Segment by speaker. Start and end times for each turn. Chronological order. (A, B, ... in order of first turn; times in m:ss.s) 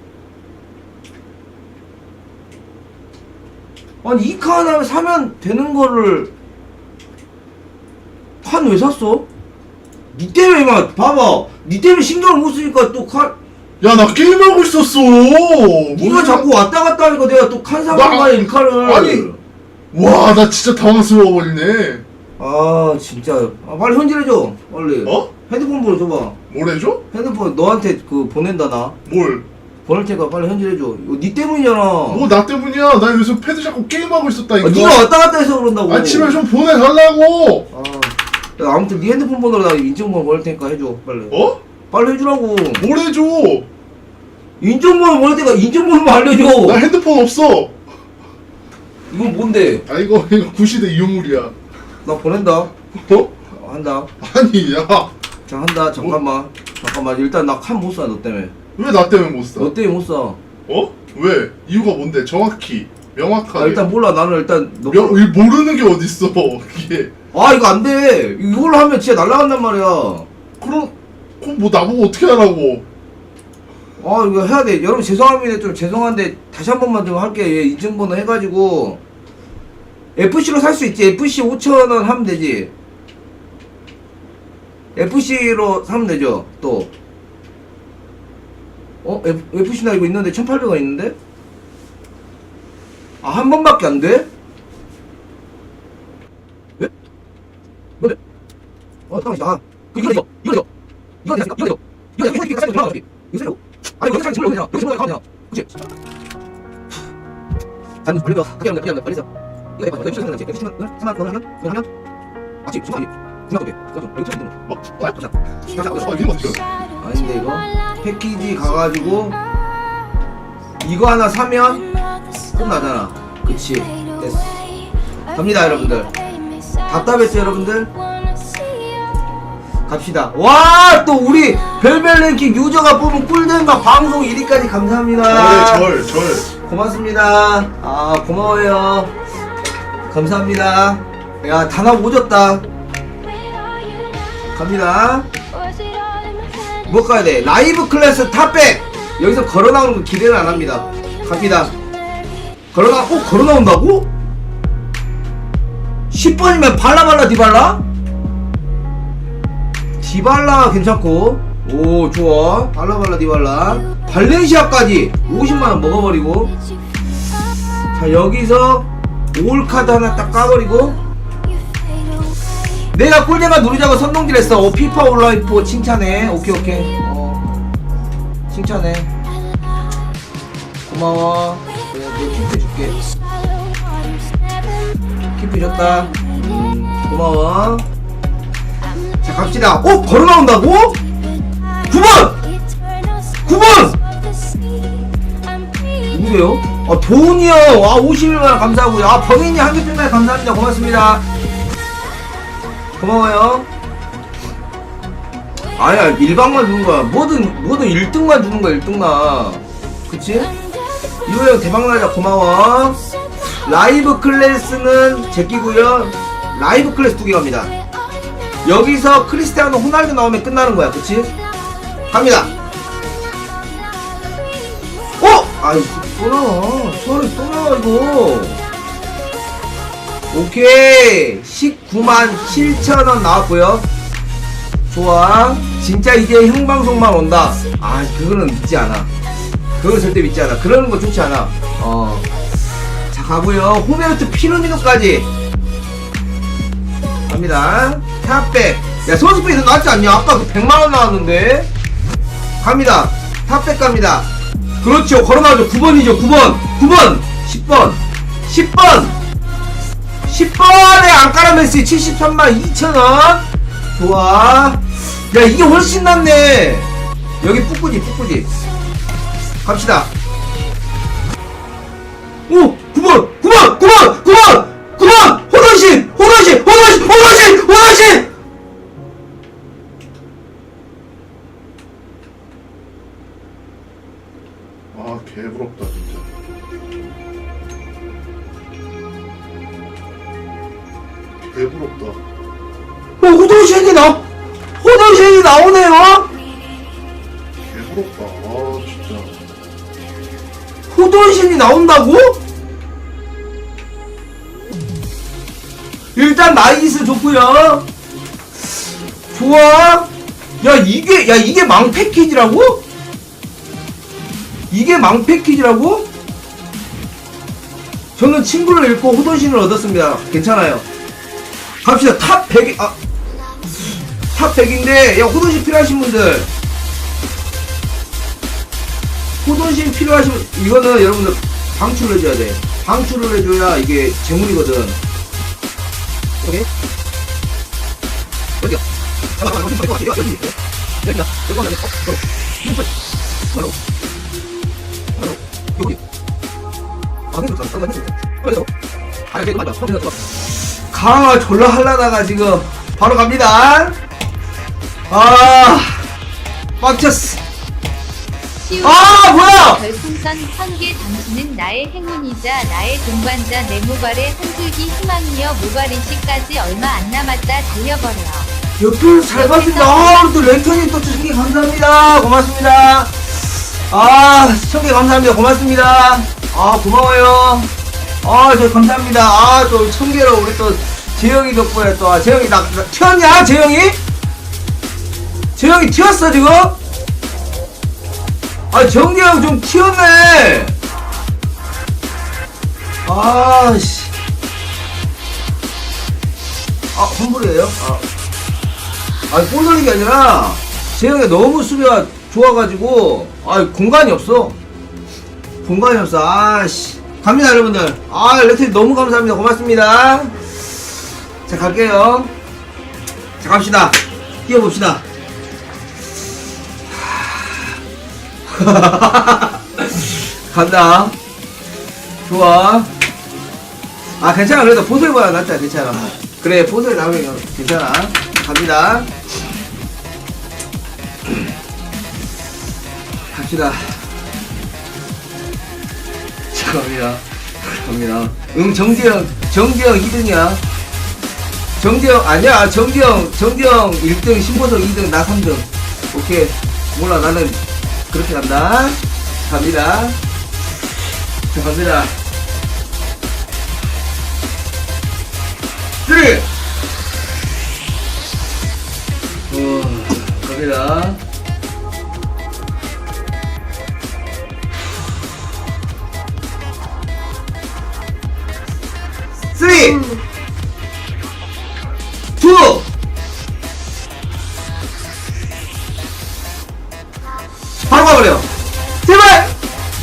0:04.0-0:06.3 A
0:08.4-0:09.3 A
0:10.1-0:13.4 A
0:13.8-0:16.5 B
0:15.9-0:19.4 A
0:17.9-0:19.3 B
0:19.9-0:22.0 B
0:22.4-0:26.4 A
0:25.0-0:25.3 B
0:26.5-0:27.0 B
0:27.1-0:29.0 A
0:29.0-0:29.4 B
0:29.8-0:32.3 A
0:32.1-0:35.1 B
0:34.6-0:36.4 A
0:35.9-0:37.7 B
0:37.7-0:42.8 A
0:41.3-0:41.6 B
0:42.8-0:43.7 B
0:44.6-0:46.8 A
0:46.6-0:47.8 B
0:49.1-0:49.8 A
0:49.8-0:51.5 B
0:52.0-0:52.7 A
0:52.9-0:53.3 B
0:53.5-0:54.1 A
0:54.2-0:55.1 B
0:55.5-0:58.5 A
0:58.8-0:59.7 B
0:59.6-1:00.4 A
1:00.7-1:03.8 B
1:03.5-1:05.2 A
1:04.9-1:07.1 B
1:07.3-1:10.3 A
1:10.6-1:12.8 B
1:14.0-1:19.0 A
1:20.2-1:22.7 A
1:24.9-1:26.9 A
1:29.0-1:31.2 A
1:33.2-1:34.3 A
1:39.1-1:40.7 A
1:41.2-1:45.7 A
1:48.0-1:51.8 A
1:52.6-1:56.4 A
1:54.7-1:55.1 B
1:55.8-1:56.6 B
1:57.0-1:59.4 A
2:00.8-2:01.9 A
2:02.5-2:04.7 A
2:05.3-2:06.1 A
2:06.8-2:07.9 A
2:09.9-2:15.9 A
2:15.3-2:16.5 B
2:16.6-2:19.1 A
2:20.1-2:22.6 A
2:24.5-2:25.3 A
2:26.8-2:31.7 A
2:32.7-2:34.1 A
2:36.1-2:37.8 A
2:40.0-2:46.5 A
2:47.9-2:51.0 A
2:52.9-2:57.4 A
2:58.5-2:59.1 A
3:00.8-3:03.0 A
3:05.3-3:07.8 A
3:09.2-3:11.0 A
3:11.8-3:12.5 A
3:13.4-3:14.0 A
3:16.0-3:21.2 A
3:23.0-3:23.7 A
3:25.7-3:30.5 A
3:31.2-3:33.0 A
3:33.5-3:37.7 A
3:38.6-3:41.3 A
3:42.1-3:42.6 A
3:45.2-3:48.6 A
3:50.3-3:53.9 A
3:54.9-3:59.1 A
3:59.8-4:02.3 A
4:03.1-4:05.3 A
4:07.3-4:11.7 A
4:12.6-4:14.3 A
4:14.8-4:19.2 A
4:20.3-4:26.9 A
4:27.4-4:28.5 A
4:29.6-4:30.1 A
4:32.5-4:38.3 A
4:44.9-4:46.3 B
4:51.5-4:52.2 B
4:53.2-4:54.2 A
4:54.8-4:56.3 A
4:57.6-4:59.4 B
5:00.9-5:02.4 A
5:06.1-5:07.9 A
5:09.3-5:10.1 A
5:10.6-5:12.8 A
5:14.7-5:16.1 A
5:18.2-5:20.8 A
5:21.8-5:23.0 A
5:24.3-5:26.5 A
5:29.4-5:35.0 A
5:39.4-5:42.8 A
5:45.2-5:46.0 A
5:47.3-5:48.7 A
5:49.3-5:54.0 A
5:55.1-5:56.0 A
5:56.8-5:57.4 A
5:58.6-6:08.5 C
5:58.8-5:59.8 A
6:08.8-6:17.7 A
6:09.3-6:10.3 C
6:18.2-6:24.0 A
6:25.6-6:26.8 A
6:28.7-6:30.8 A
6:33.0-6:34.1 A
6:36.9-6:38.0 A
6:39.3-6:44.6 A
6:45.6-6:50.4 A
6:51.4-6:52.3 A
6:53.4-6:55.0 A
6:56.9-6:57.8 A
6:58.4-7:01.2 A
7:02.2-7:02.9 A
7:04.2-7:09.1 A
7:13.3-7:14.1 A
7:16.5-7:20.6 A
7:21.8-7:30.2 A
7:31.5-7:32.2 A
7:36.0-7:36.5 A
7:39.5-7:41.2 A
7:49.5-7:50.2 A
7:52.4-7:52.9 A
7:57.8-7:58.5 A
7:59.0-7:59.5 A